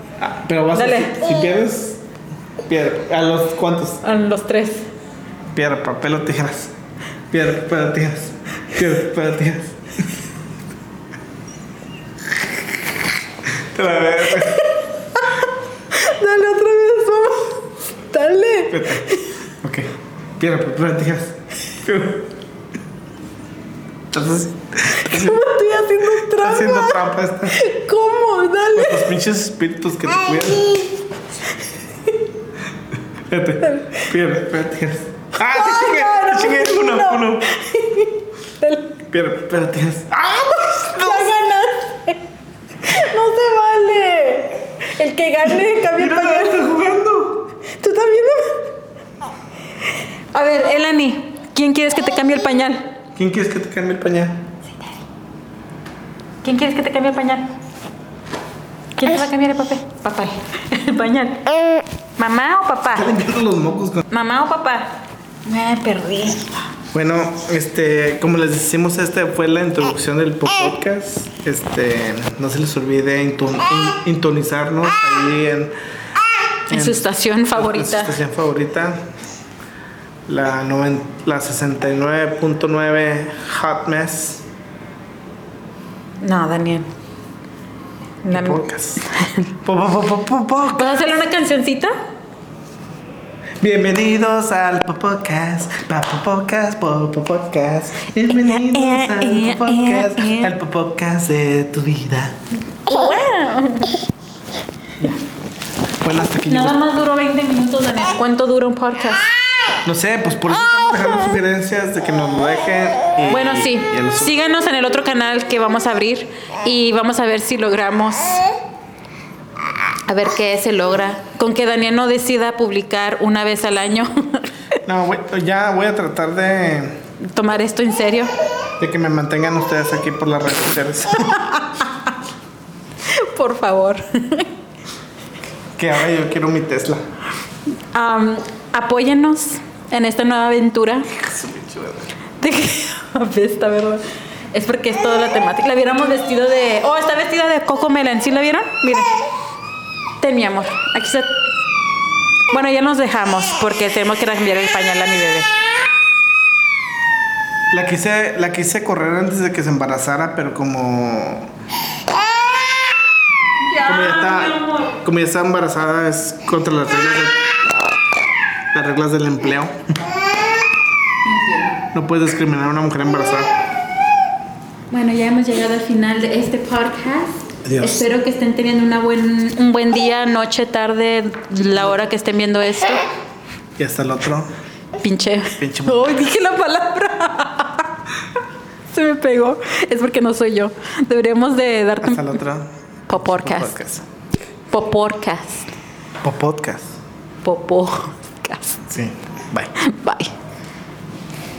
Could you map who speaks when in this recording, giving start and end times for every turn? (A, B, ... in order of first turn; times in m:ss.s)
0:00.2-0:02.0 A
0:00.7-0:01.2 B
0:02.7-0:04.0 A
0:04.0-0:04.9 B
0:05.5-0:06.7 A
0:07.3-0:09.8 A
0:13.4-0:14.8 A
0:14.4-0:19.3 B
0:18.7-0:22.3 A
0:24.1-0:25.4 A
0:25.0-0:29.2 B
0:26.0-0:27.6 A
0:28.7-0:30.8 A
0:30.3-0:30.9 B
0:33.3-0:37.5 A
0:33.6-0:34.1 B
0:35.4-0:39.0 B
0:39.1-0:41.4 A
0:40.6-0:42.2 B
0:42.8-0:46.6 B
0:45.6-0:47.5 A
0:47.6-0:48.6 B
0:50.3-0:52.9 B
0:53.2-0:54.5 A
0:56.4-0:57.5 B
0:59.0-1:01.4 B
1:02.2-1:03.1 B
1:02.9-1:04.0 A
1:04.1-1:06.6 B
1:06.9-1:15.7 A
1:16.7-1:19.1 A
1:16.7-1:18.2 B
1:20.3-1:24.5 A
1:26.2-1:26.9 B
1:28.2-1:28.6 B
1:28.3-1:29.0 A
1:29.6-1:31.0 A
1:30.7-1:31.9 B
1:33.6-1:42.4 A
1:38.5-1:40.5 B
1:42.9-1:44.0 B
1:46.0-1:46.8 A
1:46.5-1:49.3 B
1:49.8-1:54.3 A
1:53.3-1:58.5 B
2:00.1-2:04.5 B
2:04.8-2:07.0 A
2:07.2-2:08.3 B
2:08.8-2:11.5 A
2:11.6-2:11.9 B
2:13.1-2:14.5 B
2:15.8-2:17.0 A
2:17.9-2:21.1 B
2:21.2-2:22.1 A
2:22.4-2:29.1 B
2:30.2-2:31.5 B
2:32.5-2:35.5 B
2:37.7-2:41.5 A
2:43.6-2:45.0 B
2:43.8-2:47.5 A
2:48.7-2:49.8 A
2:51.2-2:51.8 B
2:51.9-2:53.5 A
2:54.9-3:03.0 B
2:57.6-2:58.1 A
3:03.8-3:04.5 A
3:05.0-3:07.9 B
3:05.6-3:06.1 A
3:08.9-3:12.4 B
3:12.0-3:14.0 A
3:13.1-3:13.8 B
3:14.7-3:15.7 B
3:16.2-3:17.0 A
3:17.4-3:18.9 B
3:18.9-3:19.8 A
3:19.8-3:20.3 B